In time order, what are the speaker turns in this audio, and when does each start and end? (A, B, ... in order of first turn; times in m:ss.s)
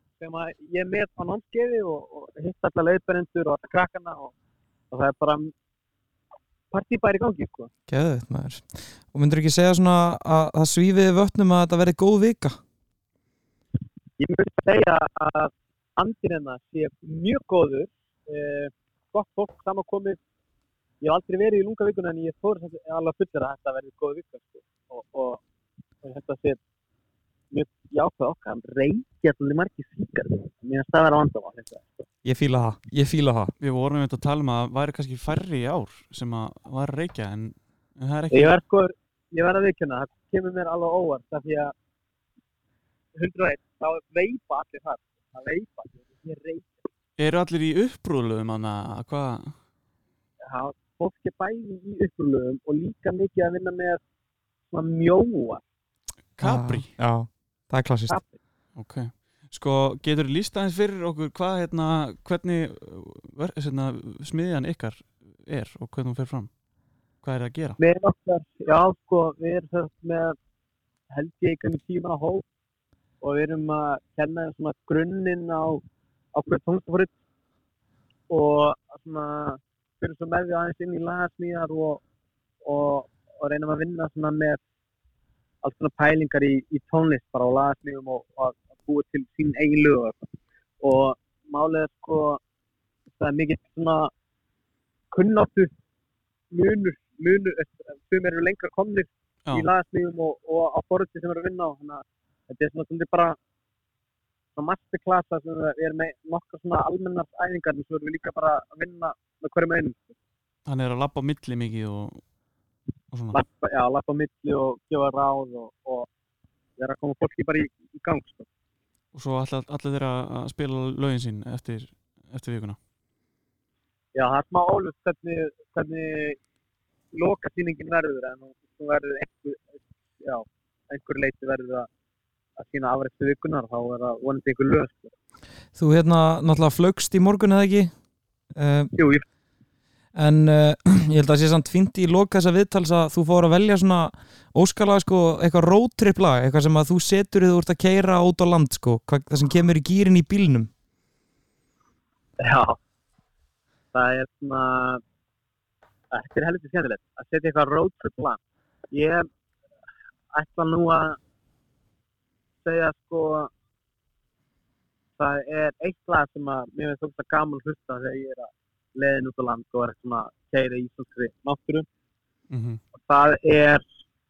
0:00.2-0:04.3 A
0:04.9-0:05.5 A
0:06.7-0:07.7 A
0:07.9-0:12.6 B
0:14.2-0:20.2 A
0:21.0-0:25.4 A
0:26.0-0:26.6 A
0:27.5-0:32.0 A
0:32.2-0:33.5 B
0:33.6-0:38.6 C
0:38.3-0:41.7 A
0:43.1-0:46.8 A
0:47.2-0:49.6 C
0:50.4-0:54.0 A
0:54.7-0:55.6 A
0:56.3-0:56.9 C
0:56.4-0:58.2 B
0:58.1-0:58.4 A
0:58.8-1:06.5 C
1:07.2-1:07.8 C
1:07.8-1:10.4 A
1:11.1-1:12.4 A
1:13.2-1:15.8 A
1:16.3-1:17.1 A
1:18.3-1:22.0 A
1:22.6-1:24.6 A
1:25.6-1:30.3 A
1:30.8-1:32.4 A
1:33.2-1:34.1 A
1:35.1-1:35.7 A
1:36.5-1:43.4 A
1:44.6-1:50.2 A
1:50.6-1:52.2 C
1:53.1-1:53.4 C
1:53.3-1:56.1 A
1:56.8-1:58.5 A
1:59.1-2:02.8 C
2:04.1-2:06.4 A
2:07.1-2:09.7 A
2:10.2-2:11.9 A
2:12.6-2:15.1 A
2:15.7-2:17.9 B
2:18.5-2:18.9 B
2:18.9-2:19.2 A
2:20.1-2:30.7 B
2:32.4-2:32.8 A
2:33.9-2:35.0 A
2:36.1-2:38.4 A
2:38.9-2:39.3 A
2:40.3-2:41.2 A
2:42.6-2:43.5 A
2:45.2-2:51.8 A
2:52.5-2:52.8 C
2:53.0-2:53.9 A